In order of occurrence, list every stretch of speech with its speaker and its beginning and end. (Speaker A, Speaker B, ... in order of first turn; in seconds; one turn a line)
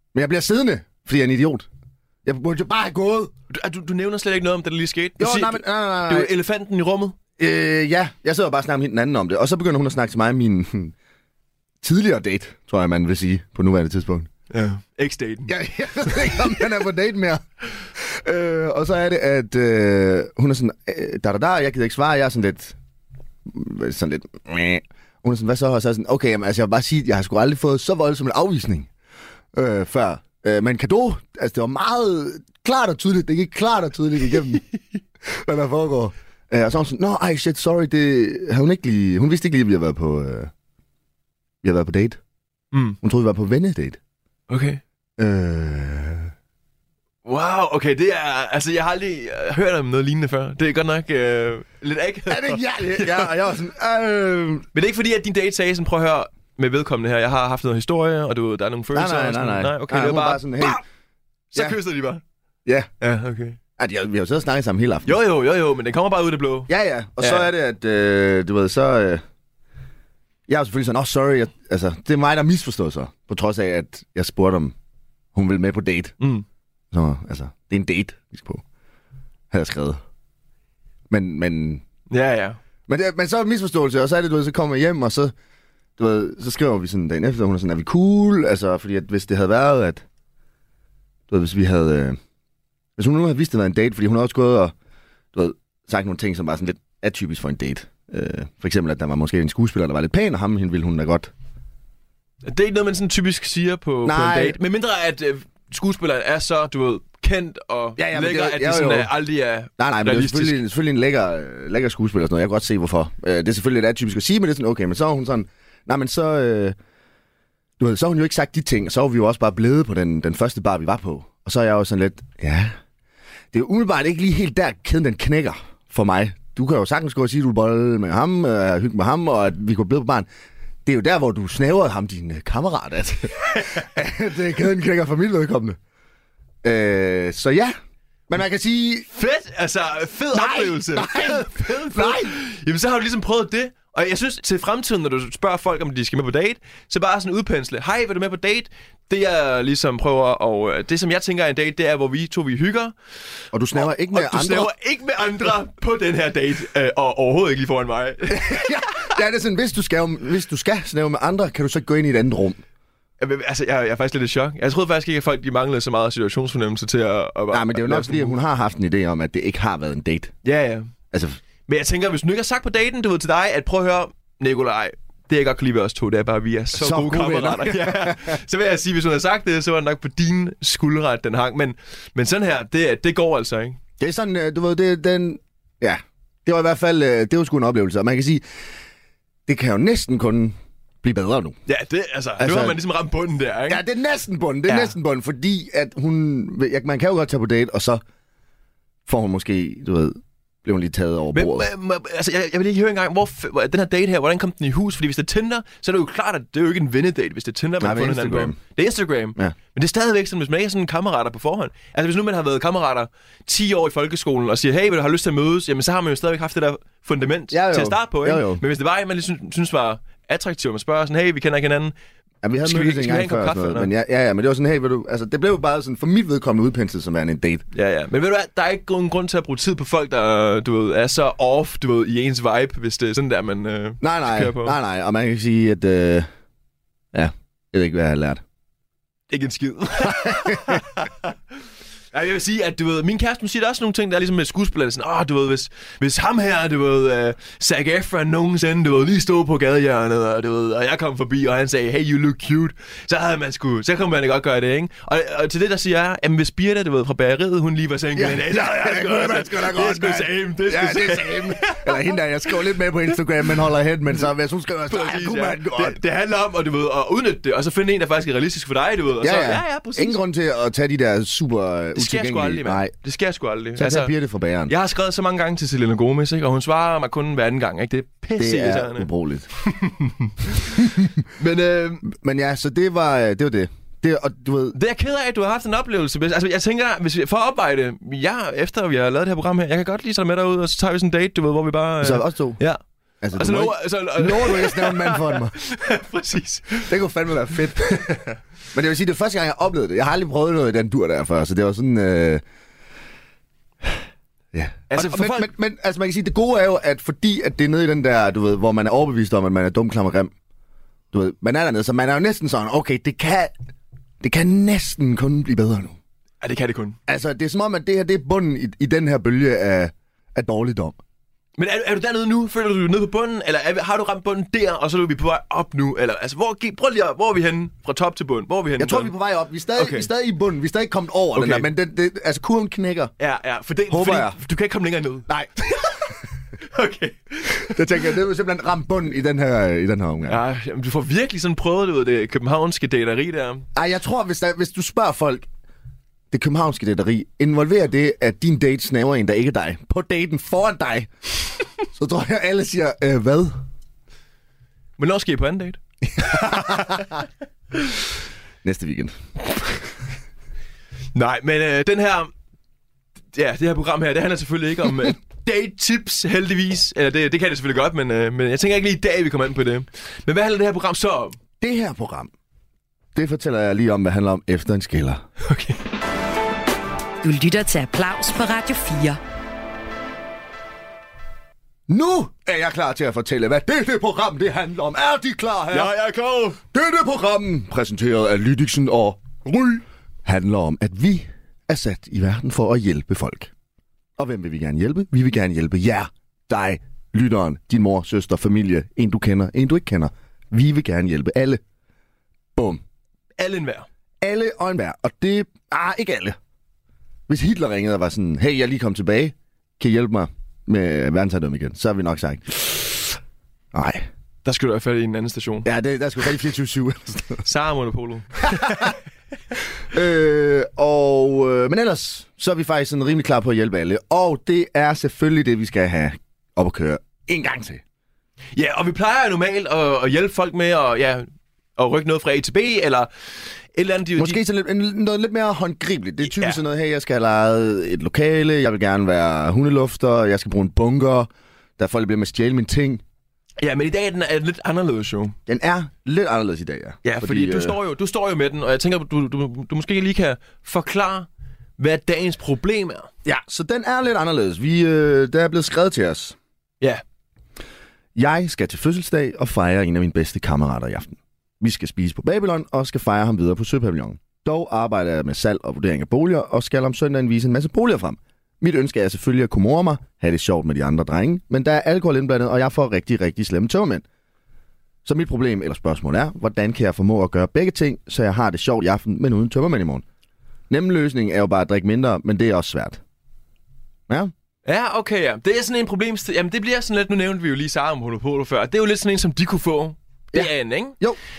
Speaker A: 0.1-1.7
Speaker A: 2.2-3.3
Speaker B: 3.5-7.2
Speaker A: 5.2-6.3
Speaker A: 7.4-10.9
Speaker A: 11.8-14.3
Speaker B: 14.5-16.4
Speaker A: 15.5-17.4
Speaker A: 18.0-22.8
Speaker A: 23.5-28.9
Speaker A: 29.5-34.6
Speaker A: 35.2-40.5
Speaker A: 41.6-42.2
Speaker B: 42.7-43.0
Speaker A: 43.0-44.0
Speaker B: 44.5-44.8
Speaker A: 45.2-46.3
Speaker B: 47.2-53.3
Speaker A: 52.3-54.7
Speaker B: 54.7-60.8
Speaker A: 58.9-60.8
Speaker B: 61.5-62.2
Speaker B: 63.0-63.6
Speaker A: 63.8-65.2
Speaker B: 65.1-67.5
Speaker A: 66.7-69.2
Speaker A: 70.5-74.7
Speaker A: 75.3-76.2
Speaker B: 76.2-76.5
Speaker A: 76.9-78.6
Speaker A: 79.5-80.0
Speaker A: 81.1-81.8
Speaker B: 82.1-82.6
Speaker A: 82.9-85.3
Speaker A: 86.0-90.0
Speaker A: 91.3-92.2
Speaker A: 93.0-94.7
Speaker A: 95.3-101.3
Speaker B: 102.4-110.6
Speaker A: 104.0-104.6
Speaker A: 108.0-109.1
Speaker A: 109.8-116.8
Speaker A: 117.8-122.8
Speaker A: 123.5-130.3
Speaker A: 130.8-135.8
Speaker B: 133.4-133.8
Speaker A: 136.6-137.8
Speaker A: 138.3-139.1
Speaker B: 139.1-152.9
Speaker A: 140.3-142.4
Speaker A: 153.5-154.7
Speaker B: 153.8-158.7
Speaker A: 158.3-162.6
Speaker B: 163.2-168.4
Speaker A: 167.5-170.3
Speaker B: 170.4-170.9
Speaker A: 171.1-171.4
Speaker B: 171.7-183.8
Speaker A: 176.7-178.3
Speaker A: 184.0-188.4
Speaker A: 189.5-191.6
Speaker B: 191.7-193.8
Speaker A: 192.4-192.8
Speaker A: 193.7-198.0
Speaker B: 194.7-194.9
Speaker A: 199.1-201.7
Speaker B: 201.3-221.9
Speaker A: 207.8-208.6
Speaker A: 217.5-218.6
Speaker A: 222.4-227.6
Speaker B: 222.6-223.9
Speaker B: 227.7-234.8
Speaker A: 234.0-236.3
Speaker A: 237.1-238.4
Speaker B: 239.3-241.3
Speaker A: 240.1-240.8
Speaker B: 242.1-262.1
Speaker A: 258.1-266.0
Speaker B: 264.9-270.2
Speaker A: 269.2-272.9
Speaker B: 272.0-274.1
Speaker A: 273.8-274.7
Speaker B: 274.7-279.1
Speaker A: 278.4-279.5
Speaker B: 279.6-282.1
Speaker A: 280.8-281.1
Speaker A: 282.1-284.8
Speaker B: 284.7-292.8
Speaker A: 292.0-292.6
Speaker A: 293.2-295.6
Speaker B: 293.3-296.9
Speaker A: 296.9-302.4
Speaker A: 304.5-310.3
Speaker B: 304.9-305.5
Speaker A: 311.1-313.5
Speaker A: 314.2-316.0
Speaker B: 316.4-317.0
Speaker A: 317.1-321.0
Speaker B: 321.6-329.1
Speaker A: 328.8-333.1
Speaker B: 329.8-330.1
Speaker B: 331.4-331.7
Speaker B: 333.2-337.8
Speaker A: 333.9-334.4
Speaker A: 337.6-340.4
Speaker B: 340.3-343.6
Speaker A: 343.8-345.5
Speaker A: 346.3-351.1
Speaker A: 351.9-353.6
Speaker B: 355.0-357.1
Speaker A: 356.2-357.0
Speaker A: 358.6-359.8
Speaker B: 361.1-362.3
Speaker B: 363.3-371.4
Speaker A: 371.6-372.3
Speaker A: 373.1-375.2
Speaker B: 375.4-375.8
Speaker C: 377.2-379.2
Speaker A: 381.9-385.9
Speaker B: 385.7-386.6
Speaker A: 386.7-393.5
Speaker A: 394.2-401.6
Speaker A: 402.6-402.8
Speaker B: 403.4-403.9
Speaker A: 404.2-406.4
Speaker A: 407.3-413.2
Speaker A: 413.7-414.1
Speaker B: 414.4-415.7
Speaker A: 415.6-417.4
Speaker B: 417.4-419.0
Speaker A: 418.5-418.9
Speaker A: 419.9-427.8
Speaker B: 428.6-433.1
Speaker B: 433.7-434.4
Speaker A: 434.2-443.0
Speaker B: 436.2-436.6
Speaker B: 443.6-445.4
Speaker A: 445.5-447.8
Speaker B: 447.0-453.1
Speaker A: 453.2-456.4
Speaker A: 458.2-474.0
Speaker A: 475.1-480.1
Speaker A: 480.7-483.0
Speaker B: 484.6-491.0
Speaker A: 490.3-491.2